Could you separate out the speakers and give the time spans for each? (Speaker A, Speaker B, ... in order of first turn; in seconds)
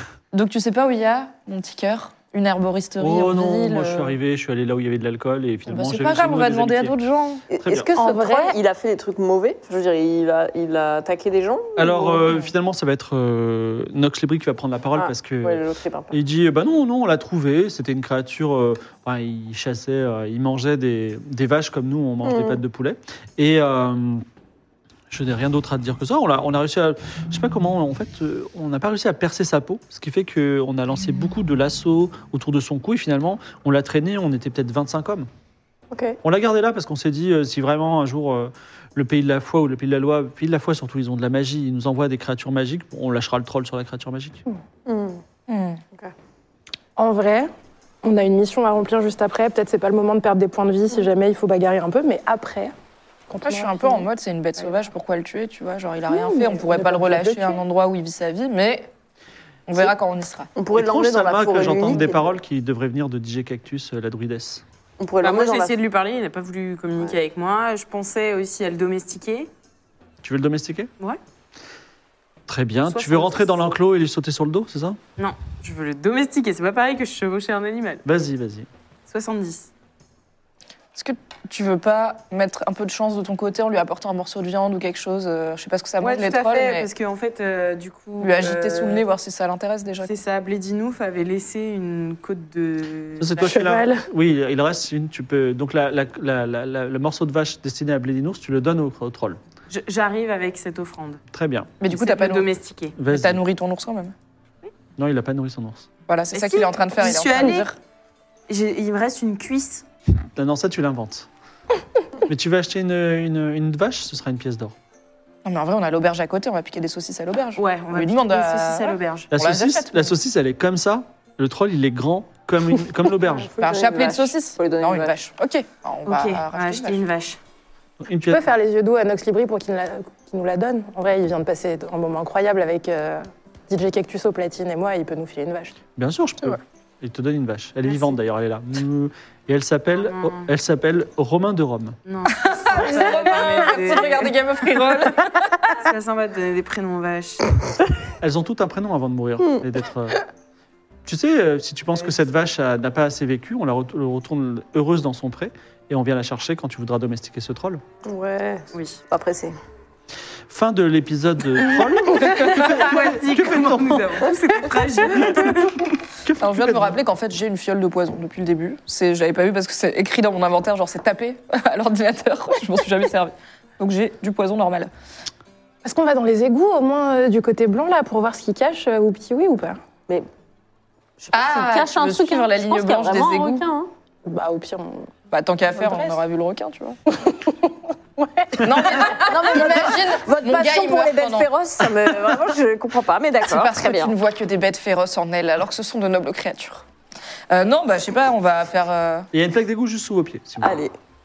Speaker A: 0.3-4.1, 5.7-7.4, 45.5-45.8, 53.4-58.9, 59.7-60.5, 80.9-86.9, 88.2-90.1, 101.8-102.5, 103.1-104.1, 106.1-107.7, 115.4-120.2, 123.6-127.0, 142.3-145.8, 166.4-174.9, 181.3-183.7, 185.3-187.0, 188.5-191.5, 193.4-196.8, 197.5-199.3
Speaker B: 3.0-6.9, 7.6-7.9, 11.8-24.2, 25.1-35.3, 36.2-44.4, 60.7-64.6, 70.2-70.9, 72.5-75.0, 78.0-78.7, 93.2-99.4, 101.3-101.7, 103.0-103.4, 105.0-105.9, 110.3-111.3, 112.2-114.7, 119.3-123.5, 128.0-128.5, 135.9-142.0, 148.2-150.2, 151.0-157.8, 160.5-164.3, 165.1-167.0, 199.3-200.8
Speaker C: 7.5-12.4, 14.9-16.2, 22.2-22.6, 35.9-36.2, 44.9-45.2, 60.5-62.3, 65.0-65.7, 123.5-125.1, 158.0-159.6, 181.2-183.9, 189.1-194.1, 200.6-200.9
Speaker D: 7.9-8.5, 47.0-47.5, 48.0-52.7, 53.3-54.1, 56.1-57.6, 93.4-94.1, 128.3-135.8, 175.8-179.8, 184.2-185.1, 185.7-186.2, 187.2-188.7
Speaker E: 65.2-69.5, 72.9-73.8, 75.2-78.0, 79.1-79.7, 86.0-89.0, 90.0-93.5, 99.7-101.2, 101.9-103.0, 106.3-107.7, 108.5-109.8, 117.6-119.3, 126.1-127.4, 139.9-140.5, 142.1-144.3, 145.7-147.6, 158.7-159.0, 162.3-165.9